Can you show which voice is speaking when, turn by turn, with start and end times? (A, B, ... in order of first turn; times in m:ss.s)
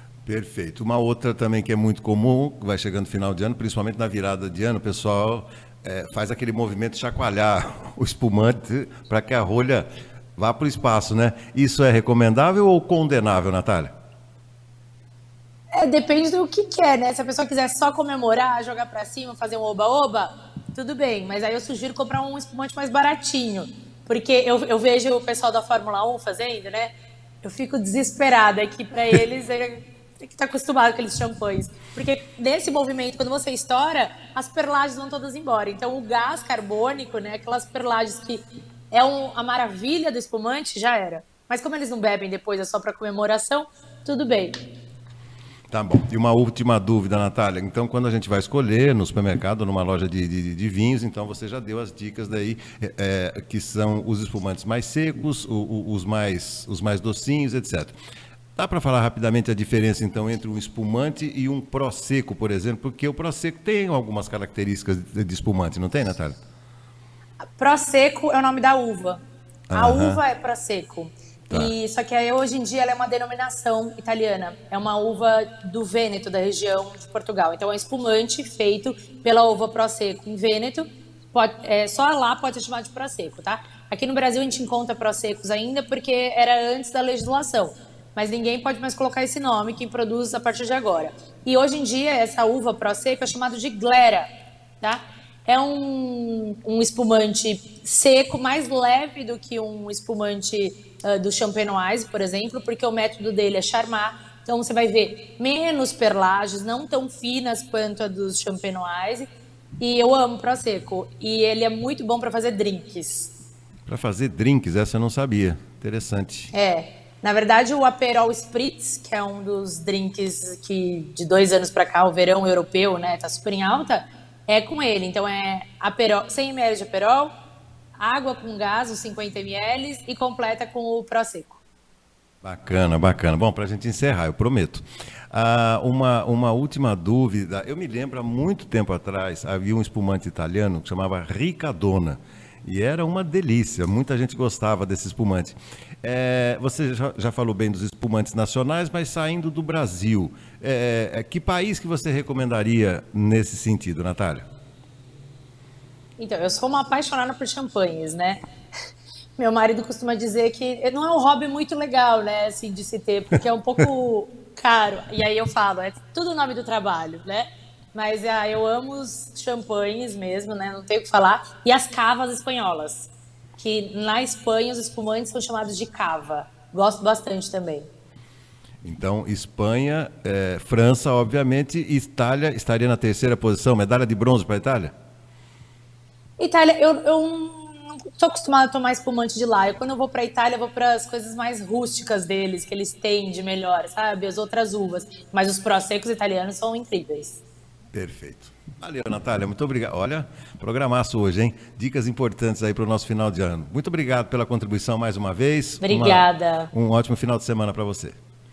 0:00.2-0:13.9 A
0:15.7-0:44.6 B
0:45.7-0:57.9 A
0:58.6-1:06.4 A
1:07.6-1:09.2 B
1:09.7-1:10.2 A
1:09.7-1:34.3 B
1:34.8-1:49.3 B
1:49.8-1:53.3 B
1:53.9-1:56.5 A
1:56.5-2:07.3 B
2:08.0-2:11.6 B
2:12.4-2:34.4 A
2:36.2-2:38.4 B
2:39.4-2:57.9 B
2:58.8-3:04.9 A
3:06.4-3:17.4 B
3:17.9-3:28.2 A
3:25.8-3:26.7 B